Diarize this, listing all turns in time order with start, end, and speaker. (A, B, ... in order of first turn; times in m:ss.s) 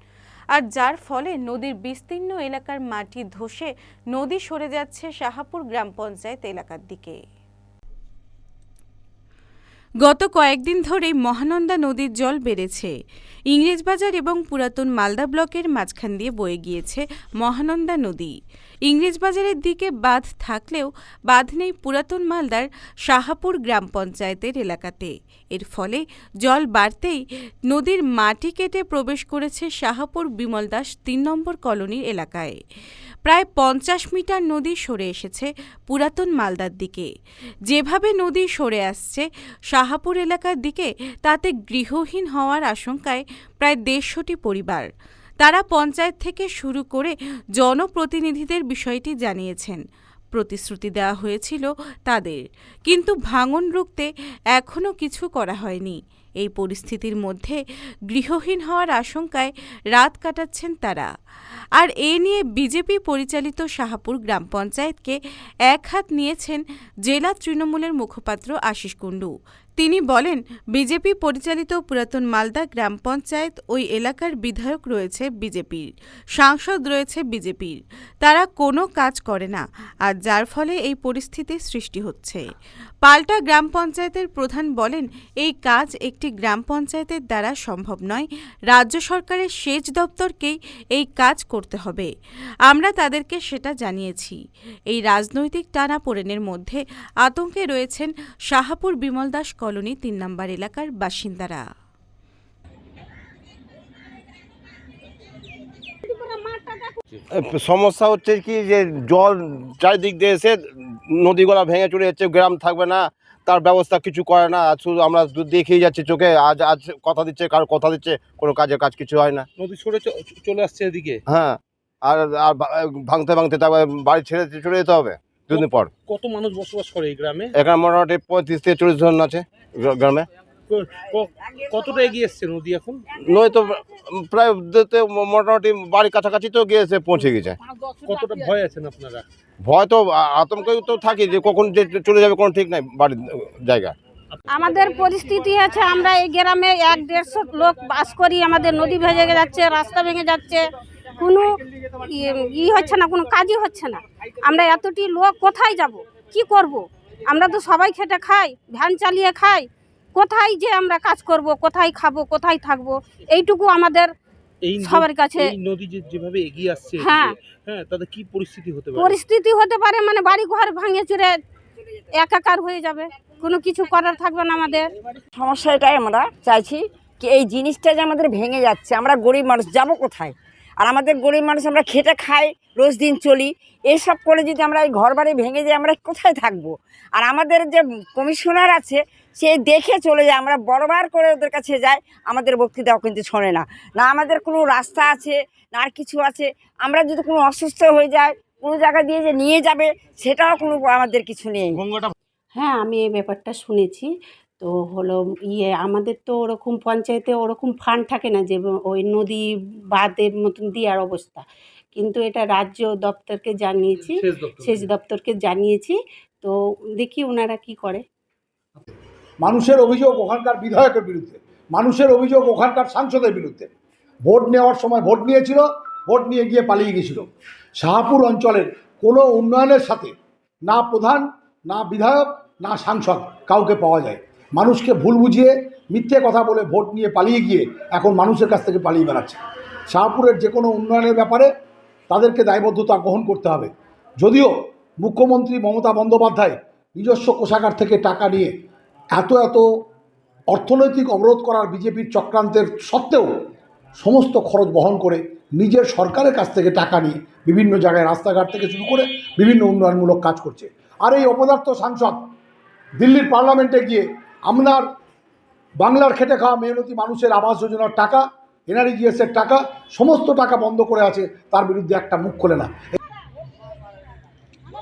0:00.5-0:07.2 A
0:10.0-0:12.9 A
0:13.5-0:18.3 A
0:18.9-0:32.6 A
0:33.2-0:37.1 A
0:37.7-0:44.8 A
0:45.4-0:49.8 A
0:50.3-0:57.6 A
0:58.1-1:01.1 A
1:01.8-1:05.2 A
1:05.7-1:22.4 A
1:23.0-1:32.1 A
1:32.7-1:34.4 A
1:34.9-1:41.6 A
1:46.0-1:47.0 B
1:47.3-1:59.5 C
1:59.6-2:01.2 D
2:01.3-2:05.9 C
2:05.5-2:07.5 D
2:07.5-2:10.3 C
2:10.7-2:13.0 D
2:13.1-2:17.6 C
2:18.0-2:19.2 D
2:19.6-2:23.9 C
2:24.5-2:30.6 B
2:31.2-2:44.1 B
2:44.6-2:49.2 D
2:44.8-2:45.5 B
2:47.0-2:47.4 B
2:48.9-2:51.4 B
2:52.1-2:54.9 B
2:55.4-3:21.8 E
3:23.3-3:24.0 F
3:25.8-3:28.5 F
3:30.1-3:31.4 F
3:32.0-3:35.9 F
3:34.2-3:34.9 D
3:37.1-3:37.9 F
3:39.4-3:43.7 G
3:44.2-3:47.3 G
3:47.8-3:50.1 G
3:50.6-4:01.5 G
4:02.1-4:08.5 G
4:09.1-4:09.6 G
4:10.5-4:13.3 G
4:14.0-4:22.2 G
4:23.0-4:24.8 G
4:25.8-4:32.7 G